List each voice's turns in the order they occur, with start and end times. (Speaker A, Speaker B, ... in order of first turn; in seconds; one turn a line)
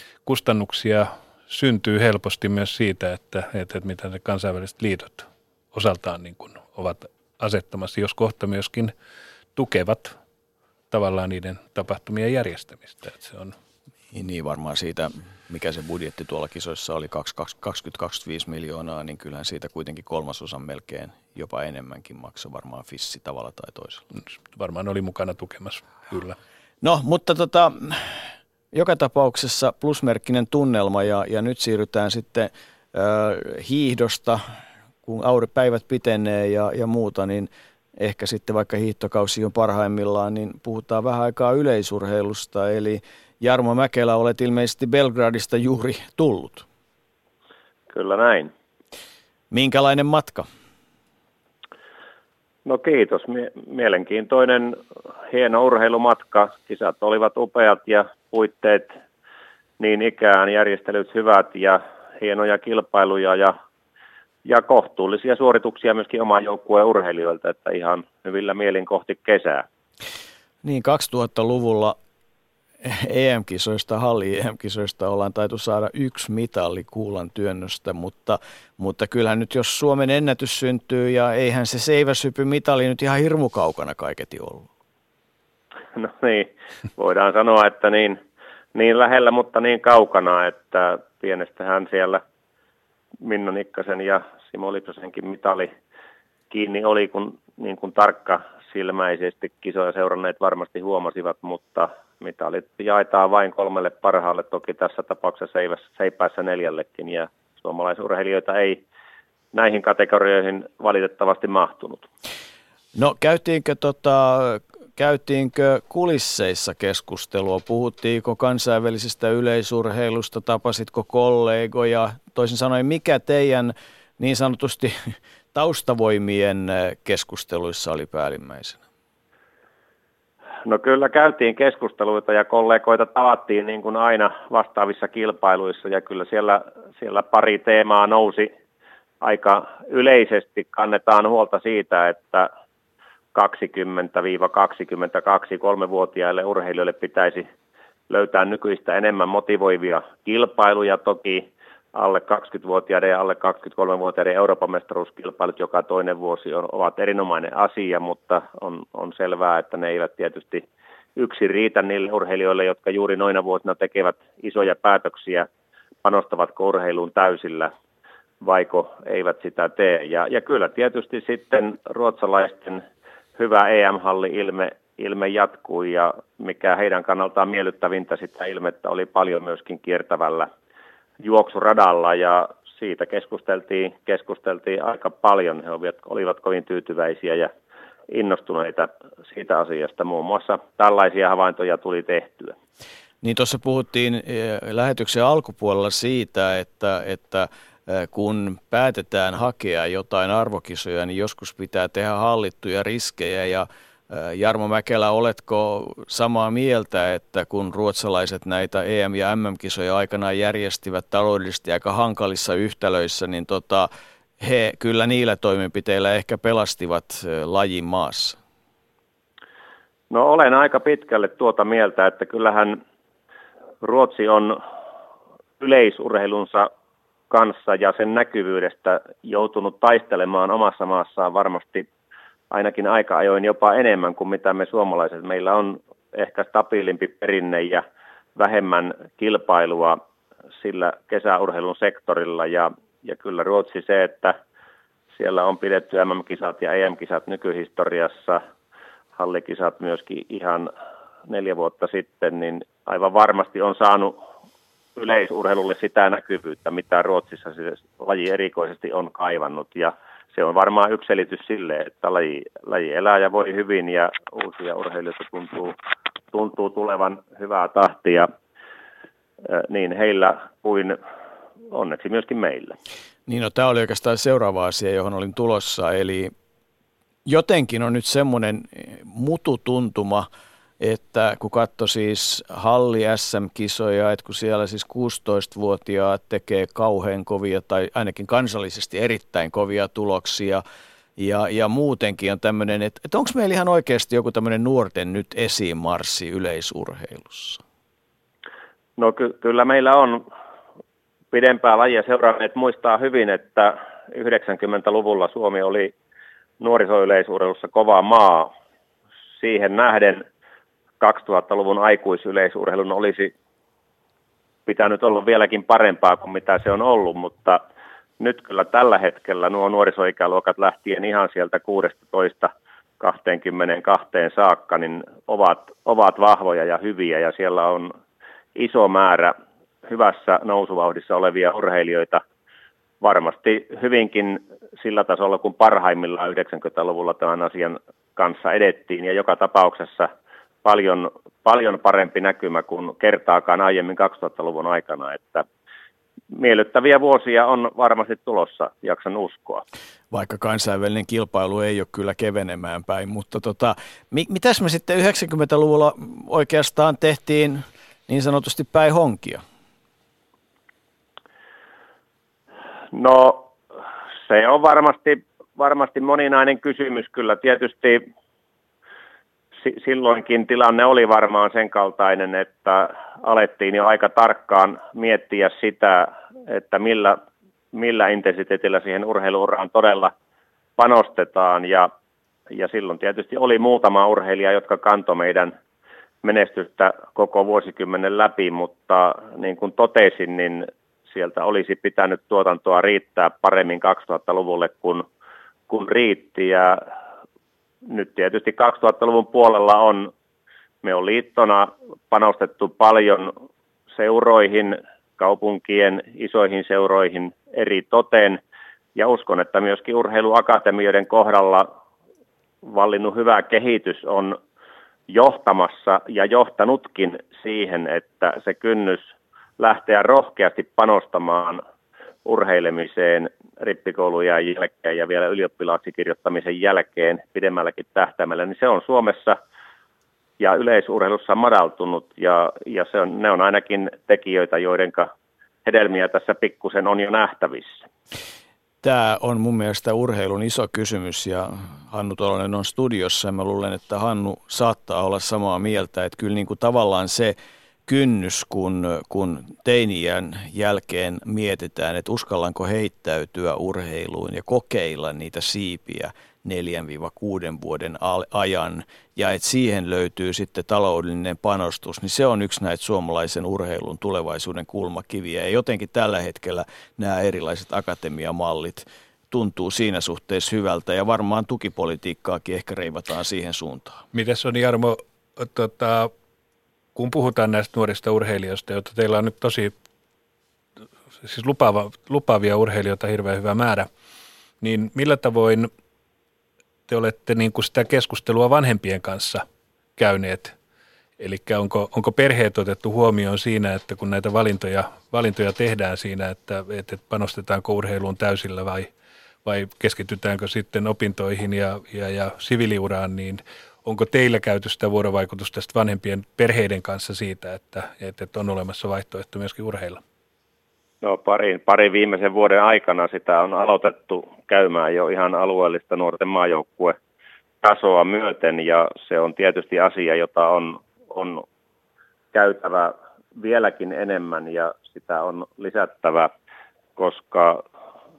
Speaker A: 0.2-8.9
Speaker A: 9.6-10.2
Speaker A: 10.9-13.5
Speaker B: 14.1-24.0
Speaker A: 24.1-26.4
Speaker B: 26.8-28.2
Speaker B: 28.7-34.4
Speaker B: 35.0-46.6
Speaker C: 47.9-48.5
Speaker B: 49.5-50.5
Speaker C: 52.6-59.0
Speaker C: 59.8-63.5
Speaker C: 64.4-69.7
Speaker B: 70.6-72.0
Speaker B: 72.8-84.7
Speaker C: 85.9-88.2
Speaker C: 88.7-92.2
Speaker C: 93.2-95.7
Speaker C: 96.5-108.8
Speaker C: 109.5-112.0
Speaker B: 113.0-128.8
Speaker C: 130.6-138.5
Speaker C: 139.2-142.5
Speaker C: 143.3-147.5
Speaker C: 148.1-160.6
Speaker C: 161.2-165.5
Speaker C: 166.0-167.7
Speaker C: 168.4-172.8
Speaker C: 173.3-180.5
Speaker C: 181.2-187.5
Speaker C: 188.1-192.5
Speaker B: 193.2-213.9
Speaker B: 214.4-218.4
Speaker C: 220.1-222.8
Speaker C: 223.8-224.6
Speaker C: 225.6-226.7
Speaker C: 227.3-231.9
Speaker C: 232.5-237.8
Speaker C: 238.3-240.0
Speaker C: 240.6-244.4
Speaker C: 245.1-248.4
Speaker C: 249.2-250.7
Speaker C: 251.3-254.2
Speaker C: 254.9-265.8
Speaker C: 266.3-268.3
Speaker C: 269.4-271.0
Speaker C: 271.7-272.7
Speaker B: 273.3-276.3
Speaker B: 277.2-280.3
Speaker B: 280.8-290.6
Speaker B: 291.2-297.6
Speaker C: 299.0-300.2
Speaker C: 301.3-305.9
Speaker C: 306.6-308.5
Speaker C: 309.4-310.2
Speaker C: 311.0-313.3
Speaker C: 314.6-317.6
Speaker C: 318.2-327.9
Speaker C: 328.5-332.2
Speaker C: 333.0-340.1
Speaker C: 340.6-345.4
Speaker C: 346.3-349.6
Speaker B: 350.1-359.4
Speaker C: 362.9-363.5
Speaker C: 364.2-368.0
Speaker C: 369.6-377.2
Speaker C: 377.7-380.1
Speaker C: 380.8-381.9
Speaker C: 382.5-385.5
Speaker C: 386.2-395.1
Speaker C: 395.7-396.8
Speaker C: 397.9-400.1
Speaker C: 400.8-403.3
Speaker C: 403.9-408.4
Speaker C: 408.9-411.7
Speaker C: 412.6-414.4
Speaker C: 415.1-421.6
Speaker C: 422.2-429.4
Speaker C: 430.4-435.1
Speaker C: 435.6-437.8
Speaker B: 438.8-447.3
Speaker B: 447.9-474.0
Speaker A: 474.1-476.1
Speaker A: 476.9-479.7
Speaker A: 481.2-483.9
Speaker A: 484.6-485.7
Speaker A: 486.9-489.4
Speaker A: 490.0-490.5
Speaker A: 491.2-498.9
Speaker A: 499.4-510.0
Speaker C: 511.0-517.0
Speaker C: 517.6-521.4
Speaker C: 522.3-526.3
Speaker C: 527.0-527.6